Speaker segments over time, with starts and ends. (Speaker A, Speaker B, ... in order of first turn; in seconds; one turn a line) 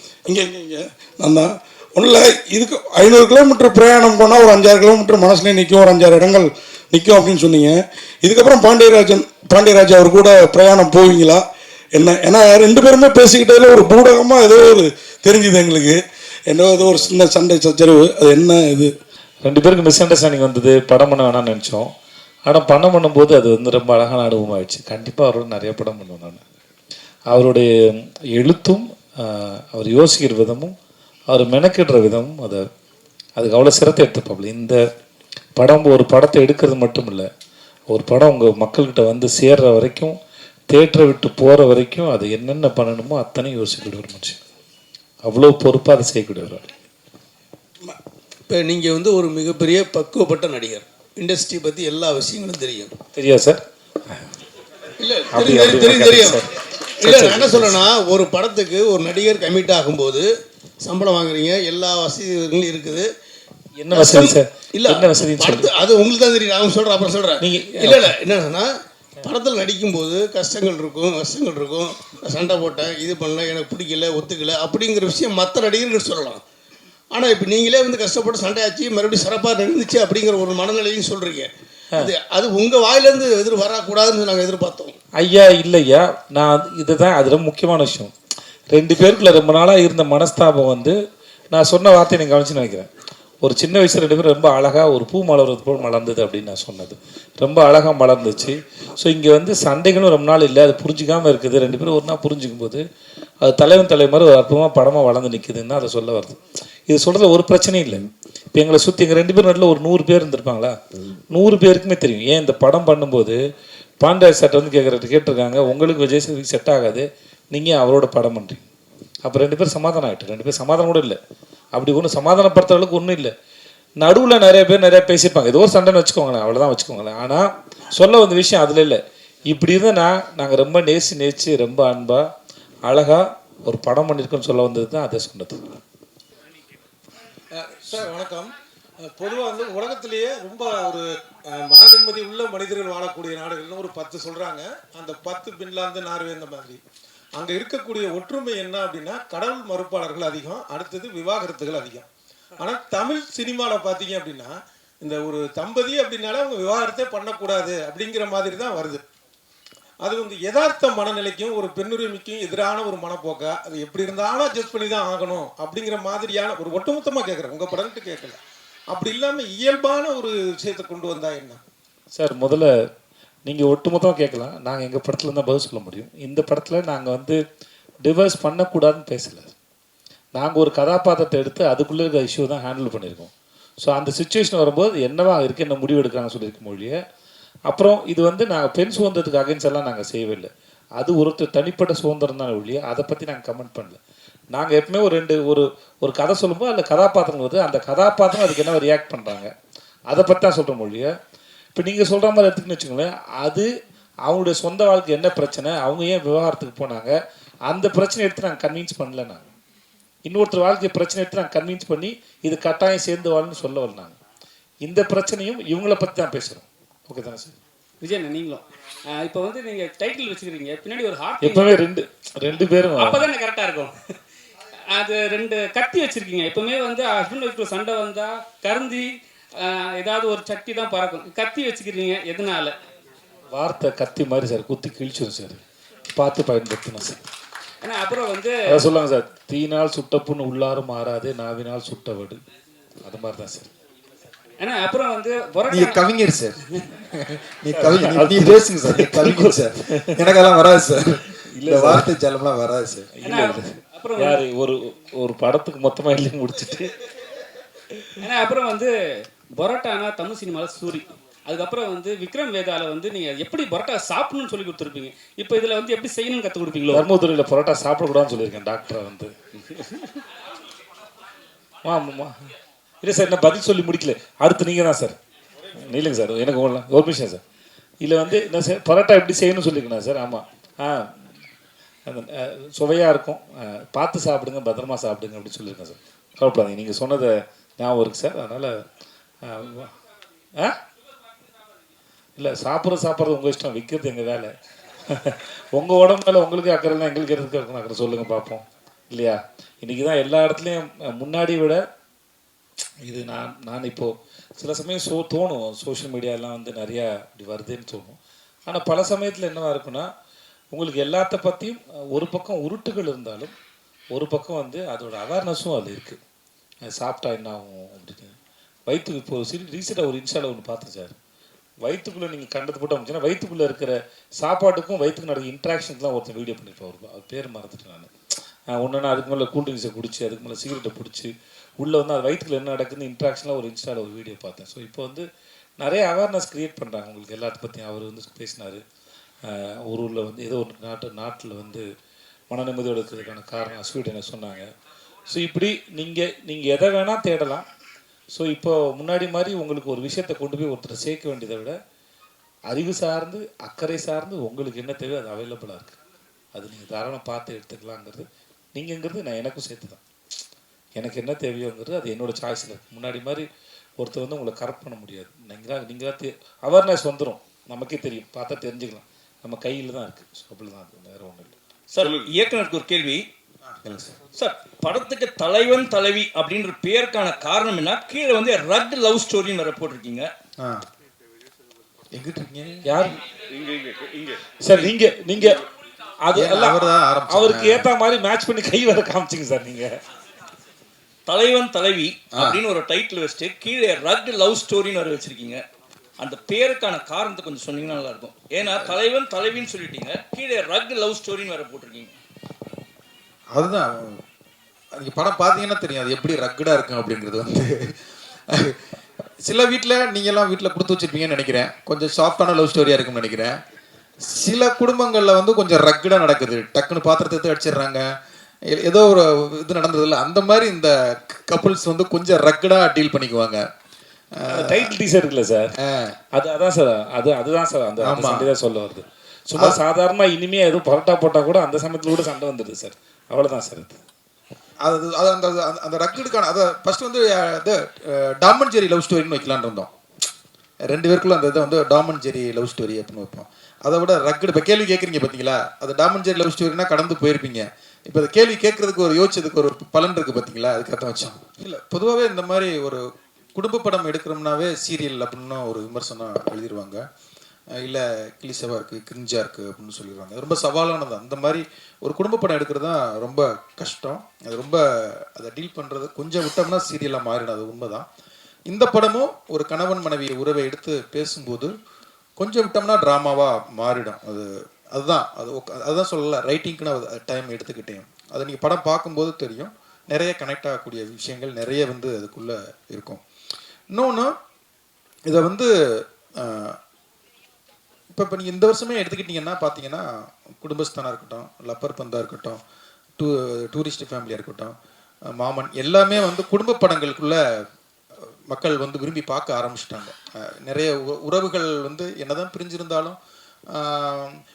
Speaker A: 0.2-18.9
Speaker B: 19.4-21.9
Speaker B: 22.4-26.4
Speaker B: 27.3-30.7
Speaker B: 31.3-32.6
Speaker B: 33.4-34.8
Speaker B: 35.6-37.3
Speaker B: 37.9-40.2
Speaker B: 40.7-44.4
Speaker B: 45.2-46.6
Speaker C: 48.5-52.9
Speaker B: 53.1-54.1
Speaker C: 55.0-56.4
Speaker B: 55.3-56.5
Speaker C: 57.0-63.1
Speaker B: 57.0-57.8
Speaker B: 63.8-65.7
Speaker C: 63.9-76.4
Speaker B: 67.4-68.1
Speaker C: 77.1-84.9
Speaker B: 85.2-88.1
Speaker B: 88.7-91.0
Speaker B: 91.5-92.9
Speaker B: 93.4-102.8
Speaker B: 103.4-110.7
Speaker B: 111.3-113.4
Speaker B: 114.0-118.7
Speaker B: 119.2-121.2
Speaker B: 121.7-123.3
Speaker B: 124.0-132.3
Speaker B: 132.8-135.6
Speaker D: 137.5-138.5
Speaker D: 139.0-146.8
Speaker D: 147.3-152.1
Speaker D: 152.6-159.0
Speaker D: 160.0-168.4
Speaker D: 168.9-171.6
Speaker B: 172.1-172.7
Speaker B: 173.4-177.4
Speaker B: 178.0-179.5
Speaker B: 180.3-183.3
Speaker B: 183.8-186.9
Speaker B: 187.7-194.0
Speaker B: 194.5-199.5
Speaker B: 200.1-201.1
Speaker B: 201.7-203.7
Speaker B: 204.2-207.1
Speaker B: 207.7-209.5
Speaker B: 210.2-214.2
Speaker B: 214.8-217.6
Speaker E: 218.0-221.8
Speaker B: 221.4-223.3
Speaker E: 222.9-223.9
Speaker E: 224.9-229.0
Speaker E: 229.6-232.7
Speaker B: 233.5-235.6
Speaker B: 236.2-237.2
Speaker E: 237.8-238.8
Speaker B: 238.7-242.4
Speaker B: 243.0-243.7
Speaker E: 244.6-246.0
Speaker F: 245.7-253.1
Speaker B: 247.8-250.3
Speaker B: 251.5-252.1
Speaker B: 253.2-256.9
Speaker E: 253.2-254.4
Speaker E: 258.2-258.9
Speaker E: 259.6-267.1
Speaker B: 266.9-269.3
Speaker B: 271.8-272.3
Speaker B: 273.0-275.1
Speaker B: 275.8-277.4
Speaker B: 278.0-281.3
Speaker B: 282.1-288.8
Speaker B: 289.4-289.9
Speaker B: 292.4-294.5
Speaker B: 295.1-301.8
Speaker B: 303.0-310.1
Speaker B: 310.7-313.5
Speaker B: 314.1-316.2
Speaker B: 316.9-318.3
Speaker B: 318.9-321.1
Speaker B: 321.8-328.1
Speaker B: 328.7-335.2
Speaker B: 335.8-338.8
Speaker B: 339.5-341.9
Speaker B: 342.5-344.7
Speaker B: 345.3-347.6
Speaker B: 348.3-351.7
Speaker B: 352.7-356.0
Speaker B: 356.5-360.0
Speaker B: 361.0-363.4
Speaker B: 364.0-371.5
Speaker G: 371.9-373.2
Speaker F: 373.6-374.1
Speaker G: 374.3-380.3
Speaker F: 380.6-380.8
Speaker F: 382.1-382.9
Speaker B: 382.9-383.1
Speaker B: 384.6-385.6
Speaker B: 386.2-390.0
Speaker F: 386.3-387.9
Speaker G: 391.3-395.6
Speaker G: 396.2-402.1
Speaker F: 398.6-398.9
Speaker F: 403.5-404.2
Speaker F: 404.9-408.0
Speaker F: 408.5-408.8
Speaker F: 409.4-413.6
Speaker F: 414.2-418.1
Speaker F: 418.7-423.6
Speaker F: 424.4-424.9
Speaker B: 424.5-425.7
Speaker F: 425.8-426.1
Speaker B: 426.3-434.0
Speaker F: 428.0-428.5
Speaker F: 434.8-439.9
Speaker F: 440.9-457.1
Speaker F: 457.7-468.1
Speaker F: 468.7-471.7
Speaker F: 472.4-483.2
Speaker F: 483.9-484.3
Speaker F: 485.3-486.8
Speaker F: 488.1-492.6
Speaker F: 493.2-494.7
Speaker F: 495.3-497.4
Speaker F: 498.5-503.2
Speaker F: 503.7-504.4